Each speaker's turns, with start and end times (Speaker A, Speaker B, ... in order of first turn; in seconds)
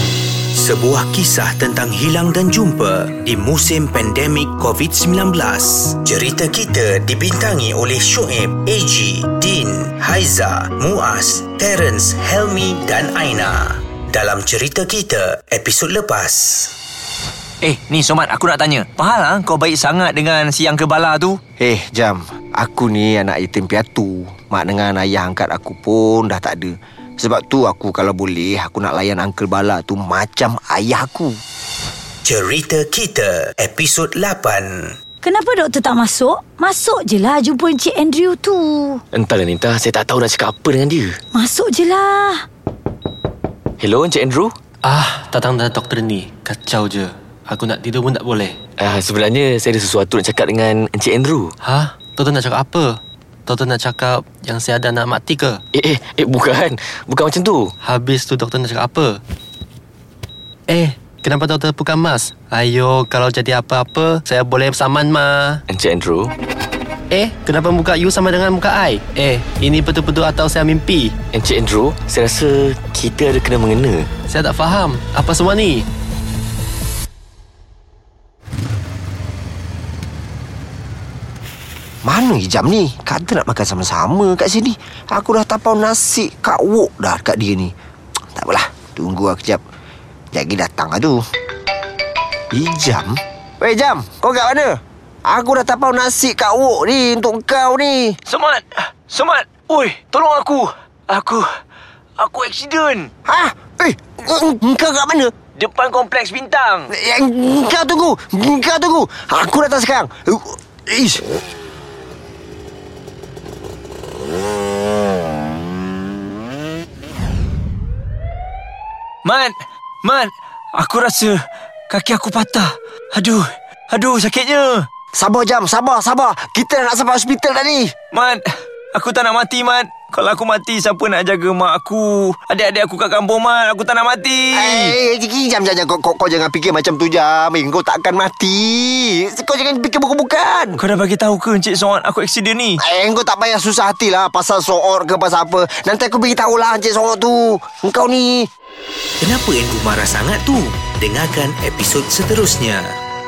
Speaker A: 0.5-16.7, 32.2-35.0, 149.2-153.0
Speaker B: 17.6-21.4, 98.3-101.5, 102.2-103.1, 105.5-106.9, 119.2-124.8, 128.1-134.9, 140.8-142.8
Speaker C: 21.6-31.4, 82.0-87.7, 88.3-89.6, 90.3-91.2, 92.5-98.2, 103.2-105.3, 106.9-111.2, 125.1-127.9, 134.5-140.8, 142.8-148.5
Speaker D: 35.2-39.0, 41.3-42.4
Speaker E: 39.1-41.2, 43.8-44.5, 48.8-51.5, 55.7-57.7, 65.7-66.3, 71.3-74.1
Speaker F: 44.8-48.6, 51.6-55.6, 57.8-59.2, 60.7-65.6, 67.1-71.1, 74.3-75.8